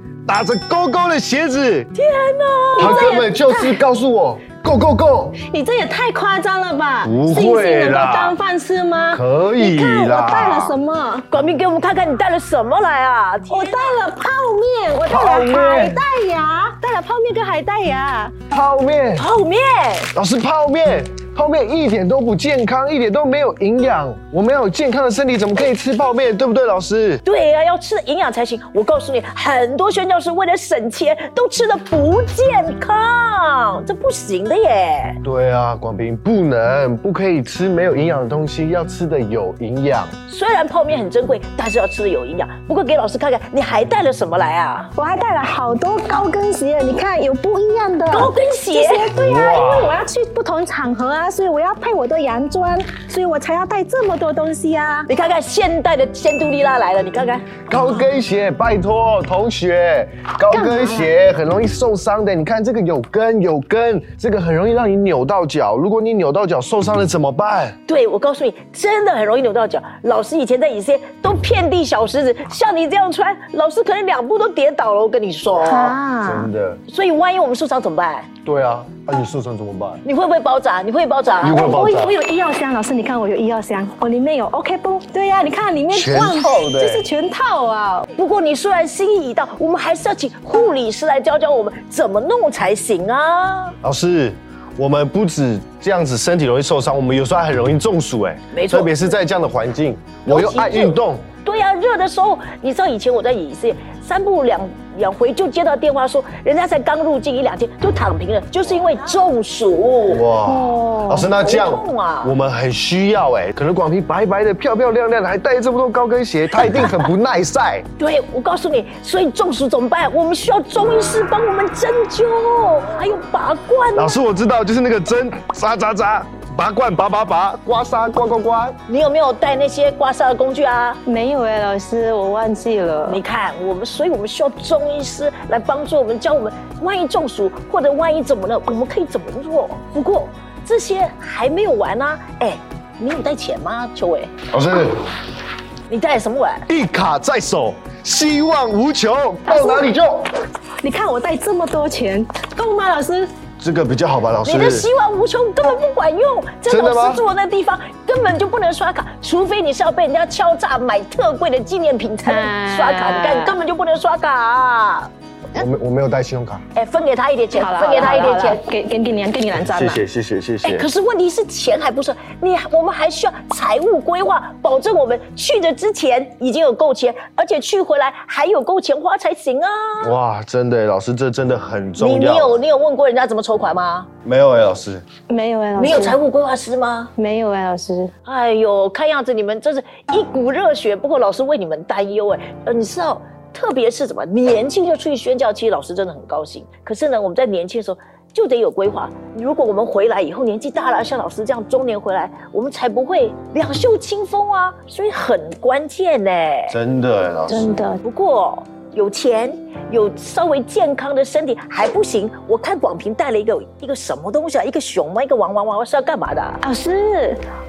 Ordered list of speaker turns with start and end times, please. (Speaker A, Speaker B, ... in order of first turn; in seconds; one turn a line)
Speaker A: 0.2-1.9
Speaker B: 1.9-3.3
Speaker C: 2.8-3.8
Speaker A: 2.8-5.4
Speaker C: 5.4-11.2
Speaker A: 7.0-8.3
Speaker A: 9.1-10.8
Speaker B: 11.3-14.0
Speaker C: 13.5-18.3
Speaker A: 15.1-16.0
Speaker A: 18.5-19.3
Speaker B: 19.2-20.1
Speaker A: 20.1-27.2
Speaker B: 27.2-35.2
Speaker A: 35.2-40.1
Speaker B: 40.3-44.9
Speaker C: 44.9-55.1
Speaker B: 48.1-49.1
Speaker A: 49.1-50.0
Speaker B: 55.1-57.6
Speaker A: 57.7-67.7
Speaker C: 60.5-61.1
Speaker B: 67.9-76.0
Speaker C: 75.6-76.5
Speaker A: 76.2-76.8
Speaker B: 76.9-78.3
Speaker A: 78.4-80.0
Speaker B: 80.0-81.7
Speaker A: 81.4-82.1
Speaker C: 81.4-88.1
Speaker A: 85.9-87.0
Speaker B: 88.1-93.7
Speaker A: 93.8-101.2
Speaker B: 98.5-98.9
Speaker B: 100.2-110.2
Speaker A: 110.1-117.8
Speaker C: 110.5-111.3
Speaker B: 111.3-112.3
Speaker B: 116.6-117.0
Speaker B: 118.0-124.2
Speaker A: 124.0-128.8
Speaker B: 128.9-131.0
Speaker C: 131.1-133.2
Speaker B: 133.0-144.3
Speaker A: 144.5-145.1
Speaker B: 145.9-146.7
Speaker A: 146.7-150.3
Speaker C: 149.5-149.9
Speaker C: 150.8-153.3
Speaker A: 153.6-154.9
Speaker B: 154.4-165.1
Speaker A: 156.7-157.2
Speaker C: 162.2-163.6
Speaker A: 165.5-166.6
Speaker B: 166.7-168.6
Speaker C: 167.5-170.0
Speaker A: 169.6-170.9
Speaker B: 170.6-180.1
Speaker A: 180.0-182.6
Speaker B: 182.0-184.1
Speaker A: 184.2-185.0
Speaker C: 185.3-186.2
Speaker B: 185.8-187.1
Speaker C: 187.2-188.1
Speaker B: 188.2-206.8
Speaker A: 206.7-207.7
Speaker C: 207.5-208.0
Speaker B: 208.0-216.6
Speaker C: 216.6-217.4